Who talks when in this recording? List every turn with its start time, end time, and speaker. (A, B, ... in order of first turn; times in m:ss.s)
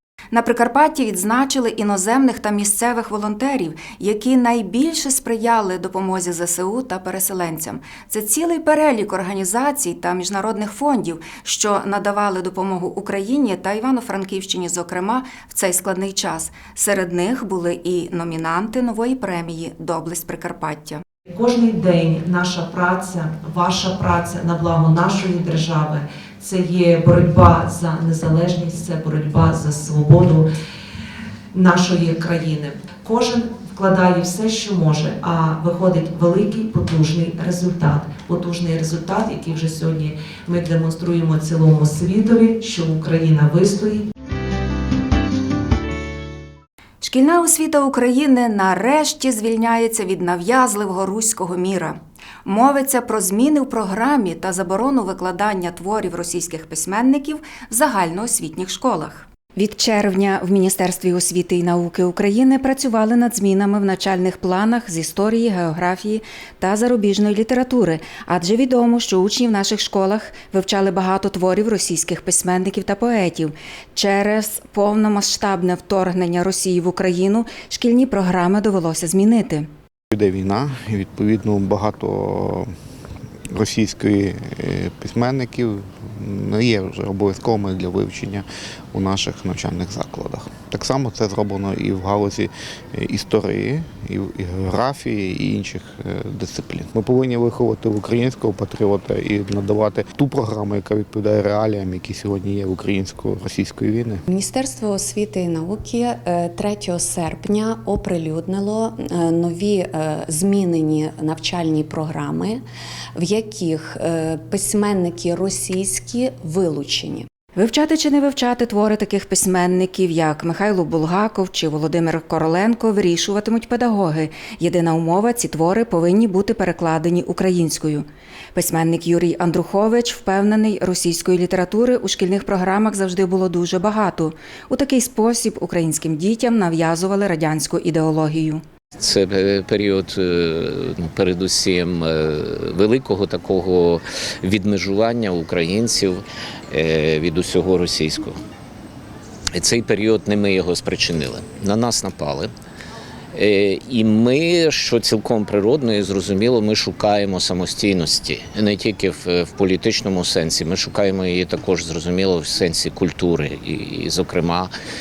0:00.3-0:21.0 A
0:21.3-0:30.4 B
0:31.5-0:44.0 B
0:47.0-1:19.7 A
1:20.1-1:22.7 C
1:23.5-1:44.2 C
1:44.3-1:52.6 D
1:53.1-1:57.2 D
1:57.6-2:18.6 A
2:19.0-2:28.4 E
2:29.5-2:32.5 E
2:33.3-2:44.7 E